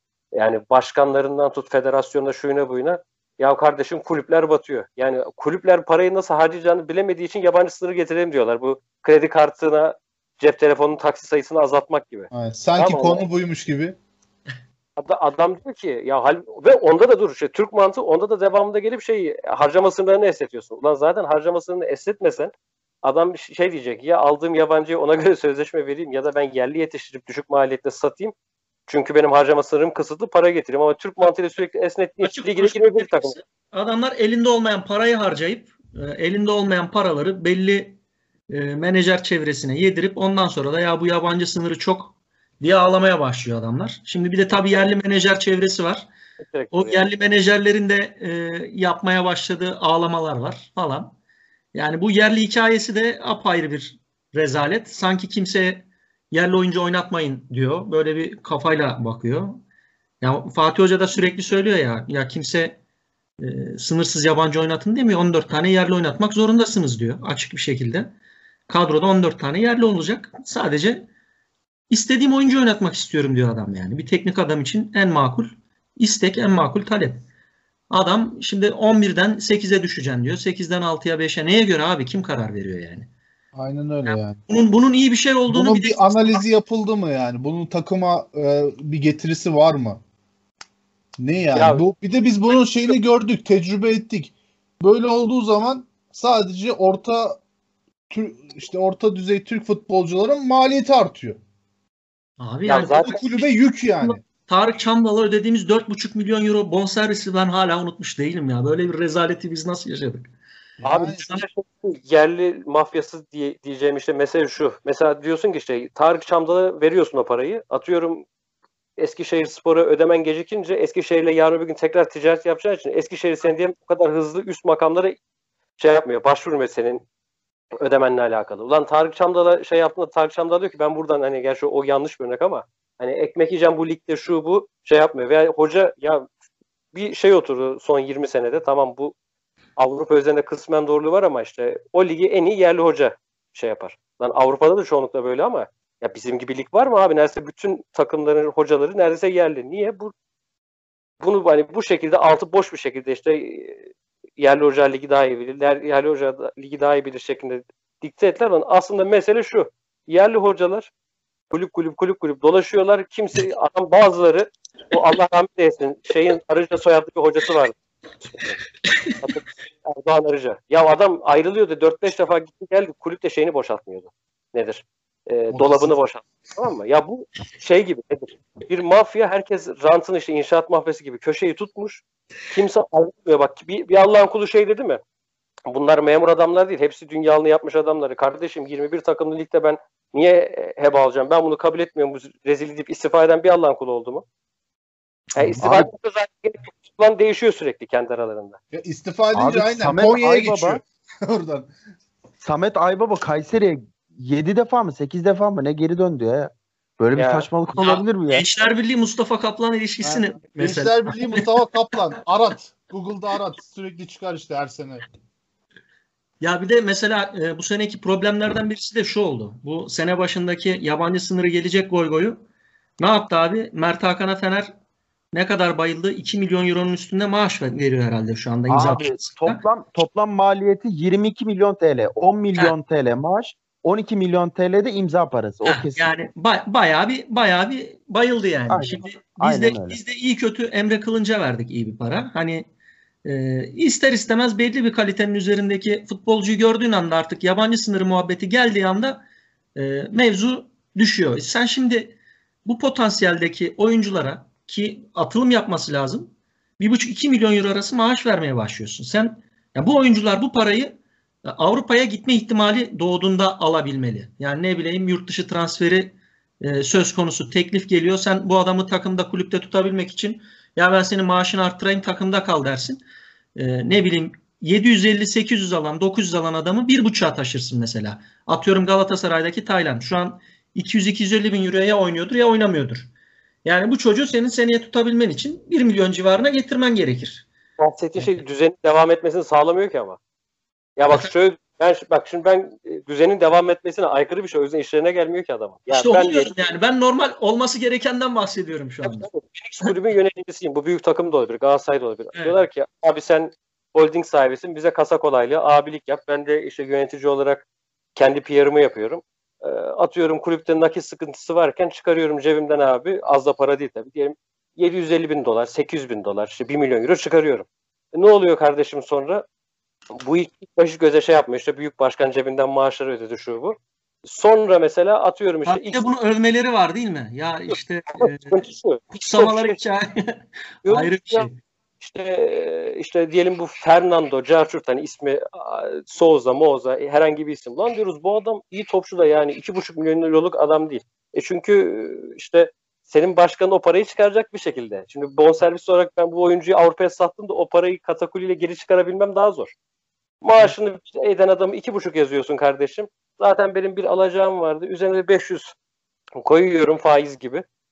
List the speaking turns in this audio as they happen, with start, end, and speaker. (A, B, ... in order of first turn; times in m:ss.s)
0:00.3-0:13.2 A
0:12.3-0:14.0 B
0:15.0-0:22.5 A
0:23.0-0:28.3 A
0:28.9-0:33.4 A
0:32.2-0:38.0 C
0:38.5-0:46.1 C
0:46.4-0:47.1 A
0:46.7-0:51.1 C
0:51.7-0:59.6 C
1:00.2-1:02.8 C
1:03.4-1:08.1 C
1:08.7-1:11.1 C
1:11.9-1:17.2 C
1:17.9-1:23.1 C
1:23.5-1:24.4 B
1:24.0-1:26.4 C
1:25.5-1:30.0 B
1:31.2-1:37.4 B
1:31.5-1:31.8 A
1:38.1-1:41.4 B
1:42.4-1:43.5 C
1:42.6-1:43.2 A
1:43.0-1:44.2 B
1:44.0-1:50.3 C
1:50.8-1:51.2 B
1:50.8-1:58.2 A
1:59.0-2:05.2 A
2:05.8-2:07.0 A
2:07.8-2:16.3 A
2:16.9-2:19.1 A
2:19.8-2:30.1 A
2:31.2-2:33.8 A
2:34.4-2:40.9 A
2:41.5-2:48.6 A
2:49.2-3:05.0 A
2:55.5-2:55.9 B
3:05.7-3:14.2 A
3:15.4-3:18.6 A
3:15.6-3:15.9 D
3:18.7-3:21.7 B
3:19.3-3:20.8 D
3:22.4-3:28.5 D
3:27.1-3:27.5 A
3:27.8-3:31.5 C
3:30.0-3:35.0 B
3:36.4-3:42.4 C
3:43.0-3:44.7 C
3:45.3-3:49.6 C
3:48.7-3:56.1 D
3:55.6-4:02.6 C
3:58.7-4:00.0 D
4:03.2-4:09.2 C
4:09.7-4:33.0 C
4:33.6-4:43.1 C
4:43.6-4:47.4 C
4:47.8-4:50.2 A
4:51.0-4:56.5 A
4:55.9-4:59.3 C
4:59.0-5:19.4 A
5:20.1-5:26.0 A
5:25.6-5:28.6 C
5:27.7-5:29.8 A
5:29.2-5:31.6 C
5:30.8-5:31.5 A
5:32.0-5:49.7 A
5:50.4-5:55.7 A
5:56.4-5:57.6 A